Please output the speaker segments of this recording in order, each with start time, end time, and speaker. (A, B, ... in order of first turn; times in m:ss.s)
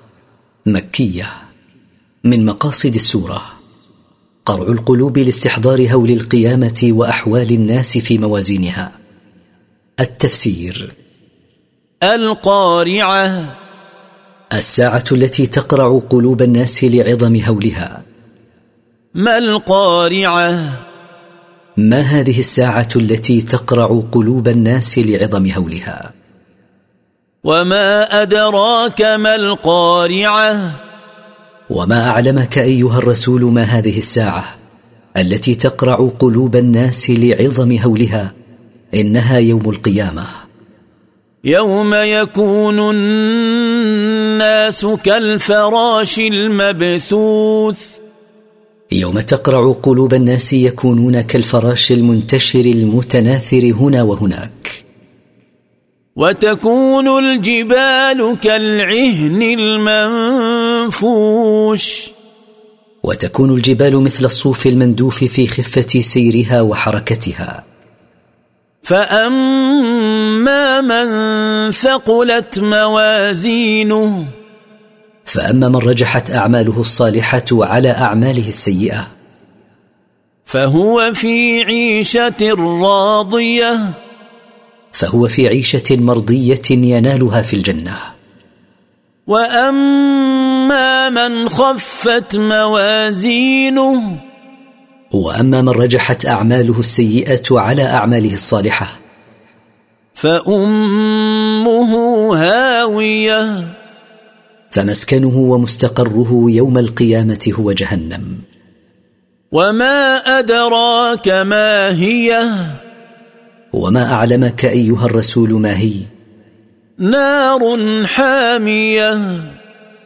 0:00.7-0:01.3 A
0:02.2-0:03.4 A
0:04.4-0:08.9 A
0:10.0-0:10.9 A
0:12.0-0:13.5 B
0:14.6-0:18.0 A
0:19.2-0:20.8 B
0:21.8-0:26.1 A
0:27.4-0:30.8 B
0:31.7-0:34.5 A
0:35.2-0:38.3 A
0:39.0-0:40.3 A
0:41.4-0:48.0 B
0:48.9-0:54.8 A
0:56.2-1:02.1 B
1:03.0-1:07.6 A
1:08.8-1:14.3 B
1:15.3-1:19.0 A
1:20.5-1:24.0 B
1:24.9-1:28.1 A
1:29.3-1:34.2 B
1:35.1-1:39.0 A
1:40.2-1:43.7 B
1:44.7-1:48.4 A
1:49.5-1:52.8 B
1:53.7-1:56.1 A
1:57.0-1:59.6 B